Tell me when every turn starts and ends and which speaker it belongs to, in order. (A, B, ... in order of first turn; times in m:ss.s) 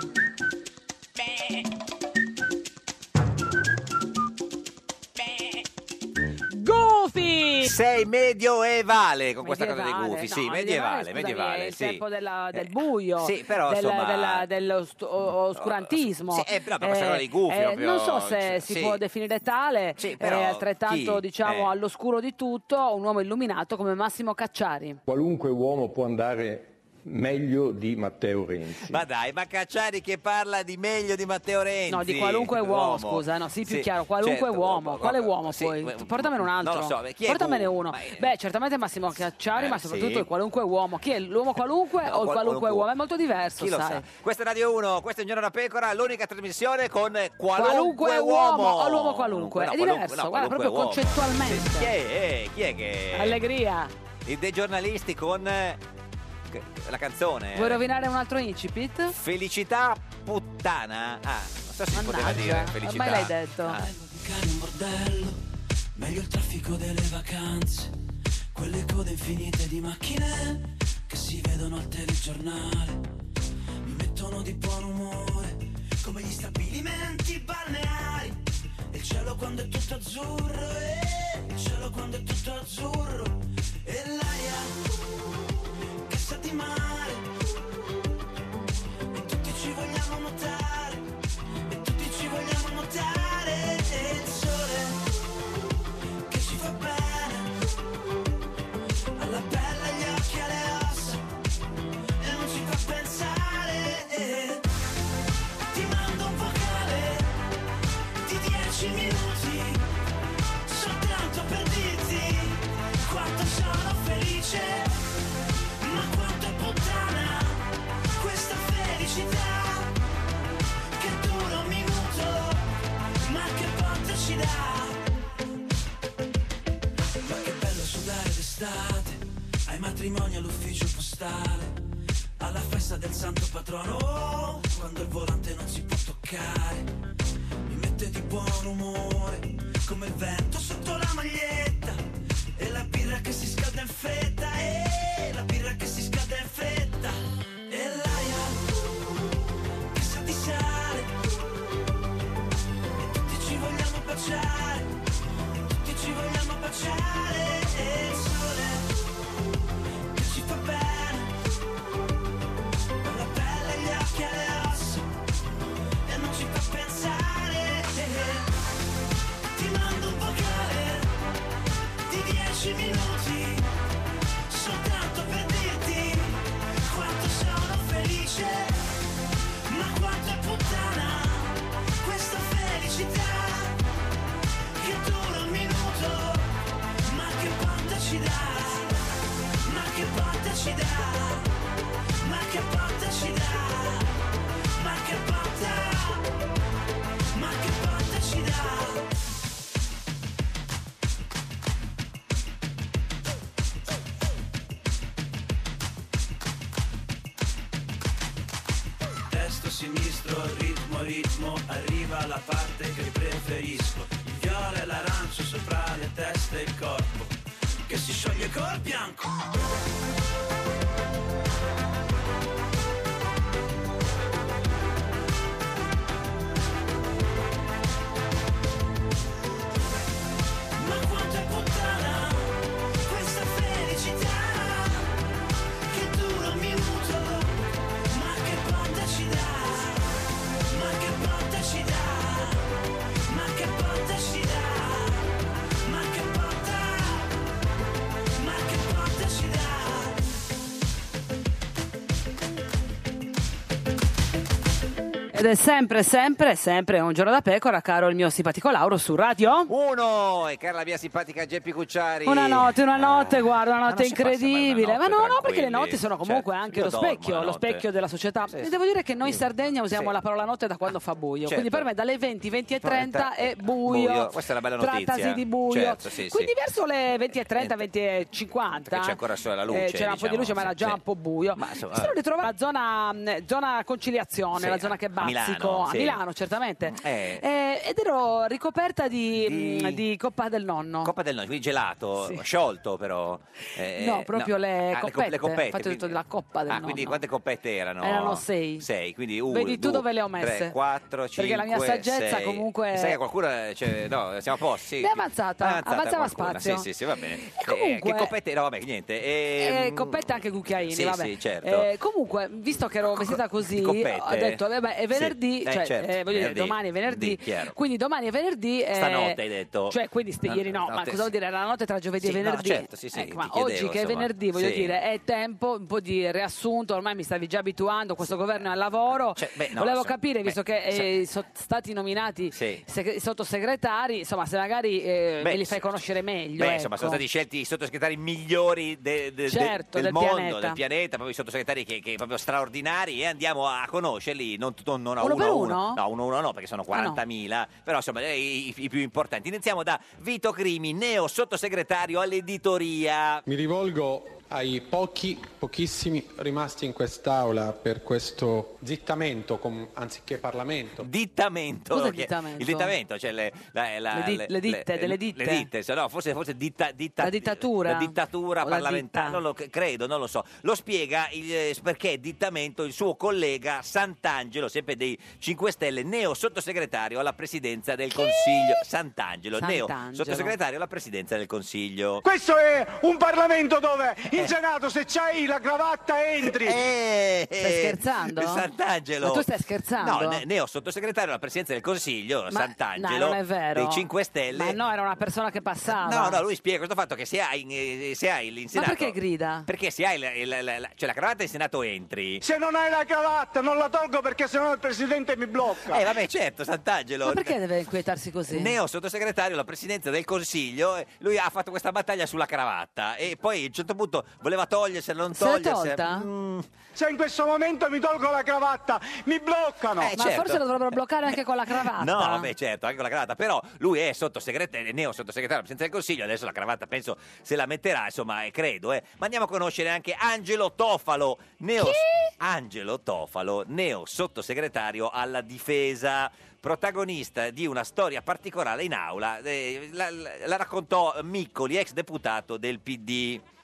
0:06.5-0:07.7 A
0:07.6-0:12.0 B
0:09.4-0:25.0 A
0:12.5-0:14.5 B
0:15.5-0:19.0 B
0:20.0-0:21.7 B
0:25.1-0:29.0 C
0:28.8-0:38.3 B
0:31.9-0:44.0 A
0:39.6-0:40.2 B
0:42.0-0:42.9 B
0:43.6-0:53.4 B
0:47.6-0:51.9 A
0:53.1-0:53.9 A
0:54.2-0:55.8 B
0:56.5-0:57.8 B
0:57.5-0:59.1 A
0:59.1-1:03.9 B
1:01.9-1:03.8 A
1:03.8-1:05.4 D
1:06.0-1:07.9 D
1:08.5-1:13.0 D
1:13.8-1:18.4 D
1:18.9-1:24.8 D
1:26.1-1:27.3 D
1:29.1-1:31.0 D
1:31.7-1:35.0 D
1:36.3-1:37.6 D
1:39.2-1:41.2 D
1:42.2-1:44.6 D
1:45.7-1:47.4 D
1:48.2-1:49.8 D
1:50.6-1:55.0 D
1:55.8-1:57.6 D
1:58.2-2:00.0 D
2:01.0-2:02.7 D
2:03.2-2:05.0 D
2:07.2-2:11.7 D
2:12.4-2:16.9 D
2:17.6-2:22.0 D
2:22.6-2:28.6 D
2:29.9-2:31.2 D
2:33.0-2:35.0 D
2:35.7-2:38.9 D
2:40.1-2:41.3 D
2:43.0-2:45.0 D
2:46.0-2:48.5 D
2:49.5-2:51.1 D
2:52.1-2:53.7 D
2:54.5-2:58.8 D
2:59.7-3:03.8 D
3:04.8-3:09.0 D
3:09.6-3:11.5 D
3:12.2-3:14.2 D
3:14.8-3:16.2 D
3:17.3-3:19.0 D
3:29.3-3:37.3 D
3:37.9-3:39.5 D
3:50.7-3:55.1 D
3:55.9-4:02.7 D
4:03.2-4:05.3 D
4:05.8-4:07.3 D
4:08.4-4:10.2 D
4:15.3-4:19.7 A
4:19.7-4:27.8 B
4:22.2-4:39.2 A
4:28.5-4:30.1 B
4:31.4-4:31.9 B
4:32.8-4:36.5 B
4:37.5-4:37.8 B
4:38.9-4:41.0 B
4:39.7-4:51.1 A
4:41.6-4:42.1 B
4:44.6-4:46.2 B
4:46.9-4:47.4 B
4:49.4-4:50.0 B
4:51.0-4:56.2 B
4:52.2-4:52.4 A
4:53.8-4:57.2 A
4:56.7-5:11.9 B
4:58.0-4:58.8 A
4:59.5-5:00.7 A
5:01.4-5:03.1 A
5:05.0-5:08.3 A
5:09.6-5:19.4 A
5:13.1-5:14.6 B
5:15.1-5:17.8 B
5:18.9-5:21.3 B
5:19.9-5:37.2 A
5:22.2-5:25.0 B
5:28.2-5:28.6 B
5:29.3-5:31.1 B
5:32.5-5:32.8 B
5:35.4-5:36.0 B
5:36.6-5:53.4 B
5:39.5-5:40.8 A
5:45.2-5:46.0 A
5:46.9-5:47.2 A
5:53.5-6:01.1 E
6:01.0-6:22.2 B
6:01.9-6:02.9 A
6:04.1-6:05.7 A
6:07.2-6:09.4 A
6:18.1-6:18.7 A
6:19.6-6:20.5 A
6:22.2-6:26.8 F
6:26.5-6:29.4 B
6:27.6-6:28.6 A
6:29.2-6:30.4 A
6:30.0-6:34.8 B
6:32.5-6:36.4 A
6:35.9-6:39.1 B
6:38.7-6:39.7 A
6:39.6-6:42.4 B
6:42.4-6:46.0 F
6:45.9-6:47.6 B
6:47.2-6:48.7 A
6:48.5-6:56.6 B
6:55.3-6:56.3 A
6:56.9-7:00.1 F
7:00.0-7:00.6 B
7:00.1-7:02.5 A
7:01.8-7:23.4 B
7:11.8-7:12.3 A